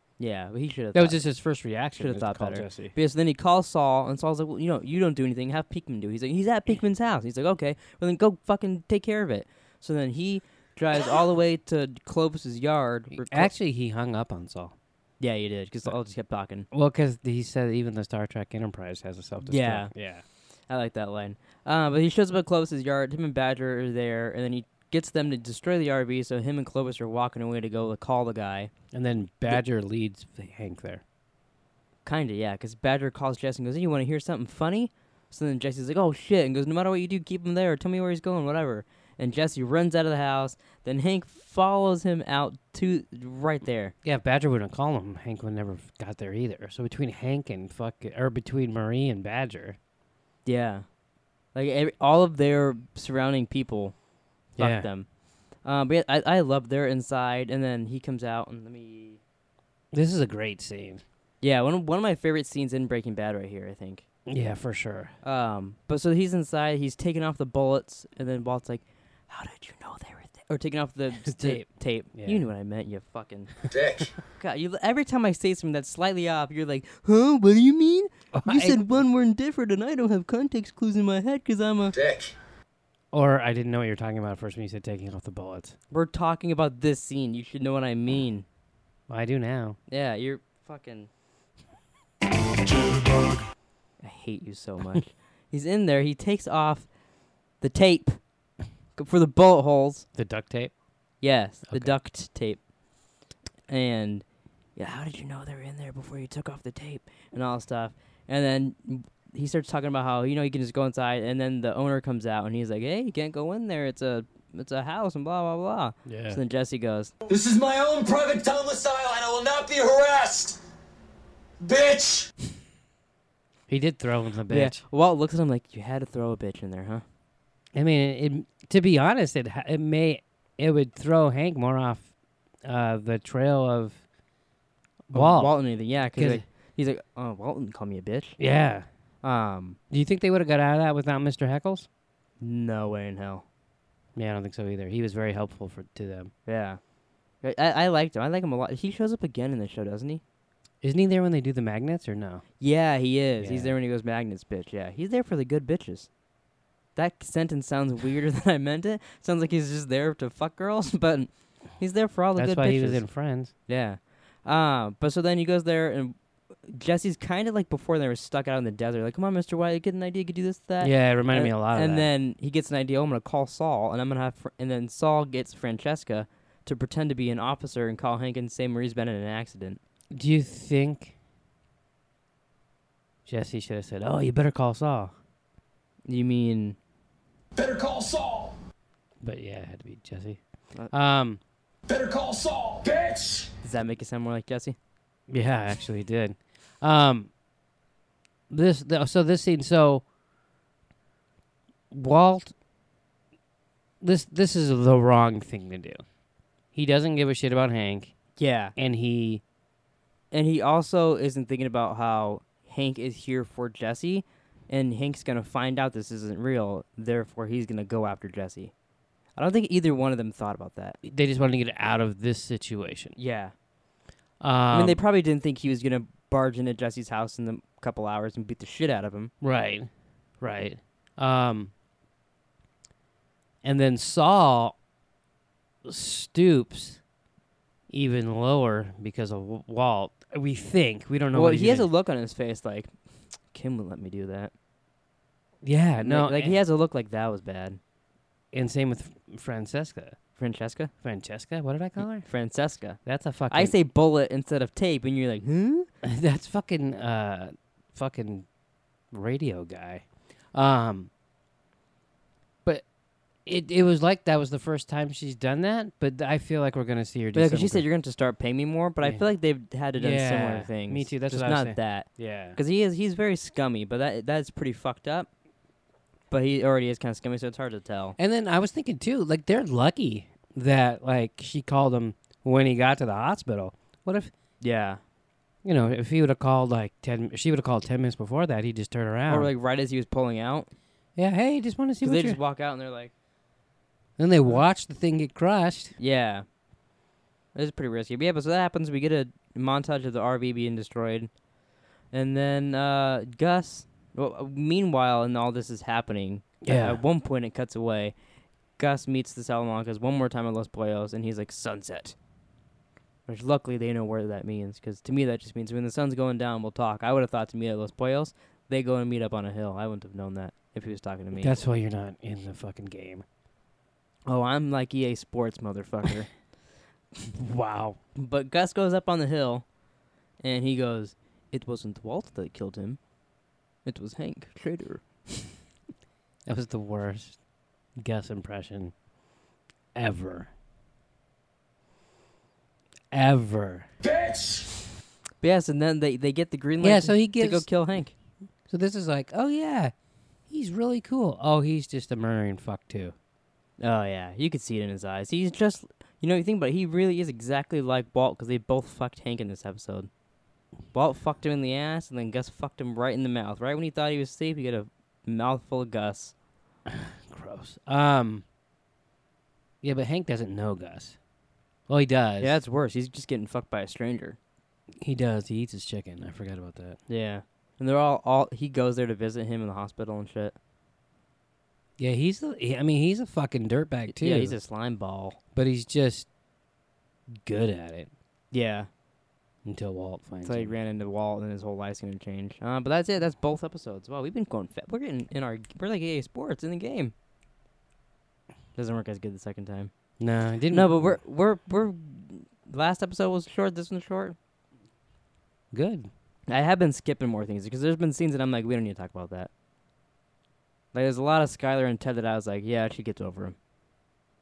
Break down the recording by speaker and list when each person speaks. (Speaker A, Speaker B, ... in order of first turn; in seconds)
Speaker A: 0.2-1.2, 2.0-13.5, 15.2-16.7, 19.4-19.9, 20.7-28.7, 32.0-43.9, 50.4-50.8, 51.5-53.9, 54.5-55.0, 55.6-59.2, 61.4-64.0, 65.2-73.5, 74.4-81.9, 85.9-88.5, 89.9-91.1, 94.0-96.9, 97.6-98.2, 99.0-100.0, 101.2-102.6, 103.7-104.2, 104.8-117.1, 124.5-127.0, 135.1-138.4, 139.2-139.8, 142.4-143.4, 146.4-146.8, 147.4-150.2, 152.6-156.1, 156.9-163.1, 163.7-166.2, 166.7-179.8, 186.1-186.8, 193.6-194.8, 208.4-208.7, 210.3-218.7, 219.4-221.0, 223.2-223.5, 224.7-229.3, 241.3-242.9, 243.5-244.5, 246.0-247.8, 250.4-250.9, 252.2-253.0, 253.5-255.9, 267.3-275.3, 276.3-278.1, 284.6-285.0, 289.3-290.7, 292.0-293.1, 296.0-296.4, 297.5-301.3, 302.1-308.1, 308.8-312.1, 313.3-321.6, 324.3-326.3, 328.1-329.6, 330.4-333.0, 333.8-335.0, 345.4-348.1, 353.8-360.1, 360.9-366.3, 372.4-374.4, 377.1-380.6, 384.1-385.4, 388.5-388.9, 390.4-397.1, 398.8-399.9, 400.7-404.4, 406.5-409.5, 410.9-413.6
Speaker B: 0.9-2.9, 13.1-14.7, 16.7-20.2, 28.9-31.0, 44.0-49.8, 54.6-54.9, 59.9-61.0, 64.3-65.1, 71.2-72.4, 78.3-78.8, 83.1-85.8, 89.1-89.8, 100.1-100.7, 101.7-102.0, 116.0-116.4, 123.7-124.8, 127.7-132.1, 132.6-134.0, 135.1-135.6, 136.1-136.4, 138.4-138.9, 139.9-141.9, 144.1-146.3, 150.8-152.4, 153.4-153.7, 162.3-163.5, 170.8-172.1, 180.1-181.1, 183.2-185.1, 189.2-191.4, 195.3-197.3, 198.5-200.0, 201.9-202.5, 204.0-206.0, 206.7-208.2, 208.8-209.4, 221.0-223.2, 224.4-225.0, 229.4-229.9, 230.4-231.7, 233.6-234.8, 235.8-237.0, 237.9-241.9, 245.6-246.6, 248.5-250.2, 251.0-252.3, 253.0-253.7, 256.0-258.5, 259.1-261.1, 263.4-267.8, 270.0-272.6, 278.2-284.3, 285.6-289.5, 291.1-292.4, 294.2-295.9, 306.6-307.0, 321.3-323.2, 327.2-328.0, 336.4-337.4, 338.0-338.9, 339.9-340.5, 343.1-343.9, 346.8-347.7, 348.7-349.9, 350.5-353.1, 366.9-368.4, 369.8-371.2, 371.9-372.6, 375.0-377.0, 382.0-384.6, 385.5-386.3, 387.3-388.1, 389.6-390.7, 400.2-401.2, 405.7-406.1
Speaker C: 73.7-74.1, 81.9-82.3, 117.3-120.6, 121.6-122.3, 187.5-188.5, 191.9-193.5, 344.0-344.7